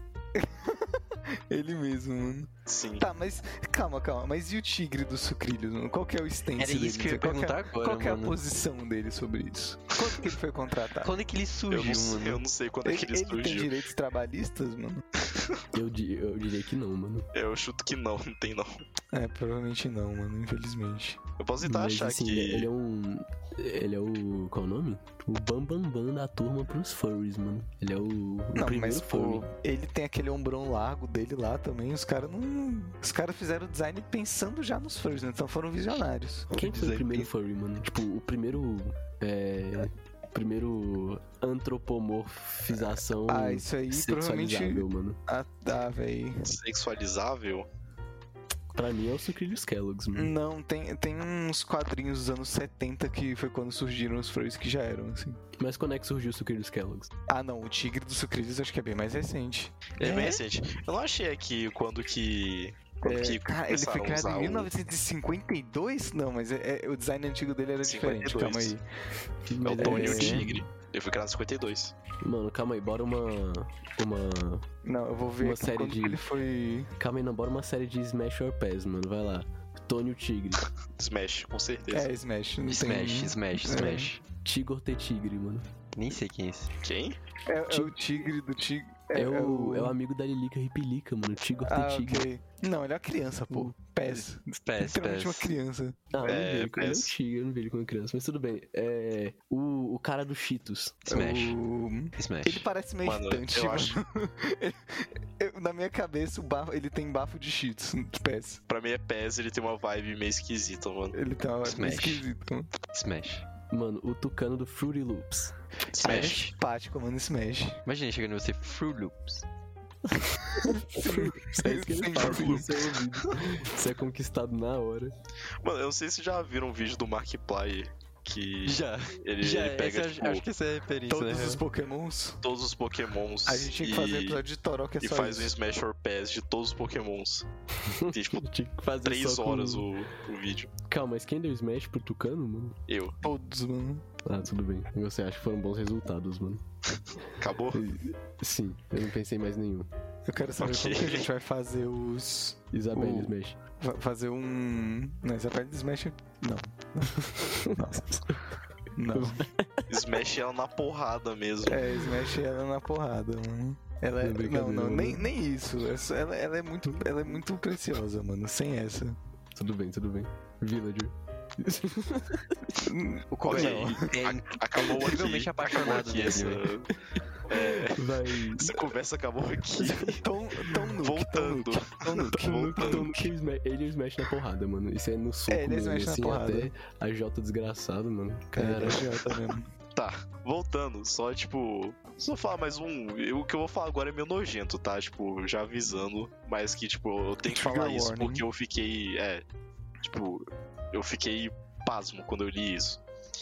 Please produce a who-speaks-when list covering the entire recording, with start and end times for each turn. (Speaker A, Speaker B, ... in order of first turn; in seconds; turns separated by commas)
Speaker A: 0.3-11.1, Speaker B: 2.7-3.1, Speaker C: 6.6-8.4, Speaker C: 11.0-12.4, Speaker B: 11.7-13.7, Speaker A: 12.8-15.0, Speaker B: 15.3-15.6, Speaker D: 15.7-17.3, Speaker B: 17.3-18.8, Speaker A: 19.1-21.2, Speaker B: 21.4-22.7, Speaker D: 21.6-29.5, Speaker A: 28.6-37.3, Speaker D: 36.5-45.2, Speaker A: 43.2-46.5, Speaker B: 46.5-47.7, Speaker D: 48.7-50.3, Speaker A: 50.1-55.4, Speaker D: 55.6-57.1, Speaker A: 57.3-60.4, Speaker B: 60.0-64.7, Speaker A: 63.0-68.8, Speaker B: 67.8-68.8, Speaker D: 69.5-70.6, Speaker B: 69.6-71.9, Speaker A: 69.8-70.5, Speaker D: 72.2-74.7, Speaker A: 74.8-76.9, Speaker D: 75.4-76.2, Speaker D: 77.0-80.6, Speaker B: 80.9-82.1, Speaker A: 81.9-84.1, Speaker C: 82.7-84.2, Speaker D: 84.4-85.7, Speaker C: 85.9-86.7, Speaker B: 86.8-87.2, Speaker A: 87.5-89.9, Speaker D: 87.7-88.0, Speaker D: 89.1-92.3, Speaker A: 91.7-96.0, Speaker C: 94.1-95.5, Speaker D: 96.1-101.1, Speaker B: 96.2-97.1, Speaker A: 101.1-108.6, Speaker C: 101.1-101.6, Speaker C: 102.2-102.7, Speaker B: 103.0-104.0, Speaker B: 108.7-111.2, Speaker A: 111.1-112.7, Speaker C: 111.7-112.2, Speaker C: 112.9-113.5, Speaker D: 113.7-115.5, Speaker B: 115.9-116.4, Speaker A: 116.0-117.8, Speaker C: 116.0-116.5, Speaker C: 117.9-119.5, Speaker A: 120.5-122.8, Speaker D: 120.6-125.1, Speaker B: 125.6-130.4, Speaker C: 128.7-131.6, Speaker A: 131.1-132.4, Speaker B: 132.4-134.4, Speaker A: 133.5-135.6, Speaker B: 135.0-137.5, Speaker D: 137.8-139.9, Speaker B: 138.1-138.5, Speaker B: 139.0-140.7, Speaker D: 140.9-142.8, Speaker B: 142.9-143.2, Speaker A: 143.2-144.0, Speaker D: 144.2-146.6, Speaker B: 147.4-147.8, Speaker D: 147.7-149.9, Speaker A: 150.3-158.4, Speaker B: 150.6-151.3, Speaker D: 152.7-153.6, Speaker A: 158.9-159.4, Speaker D: 159.1-159.9, Speaker B: 159.9-161.8, Speaker A: 161.7-169.2, Speaker D: 164.2-165.3, Speaker D: 166.9-167.2, Speaker D: 169.5-172.5, Speaker A: 172.8-174.3, Speaker C: 173.4-176.7, Speaker B: 173.5-176.9, Speaker B: 177.4-183.1, Speaker D: 177.6-178.8, Speaker A: 179.8-183.3, Speaker D: 182.2-189.1, Speaker A: 185.5-186.7, Speaker A: 188.5-189.7, Speaker B: 189.9-199.4, Speaker A: 197.5-198.4, Speaker B: 200.0-203.0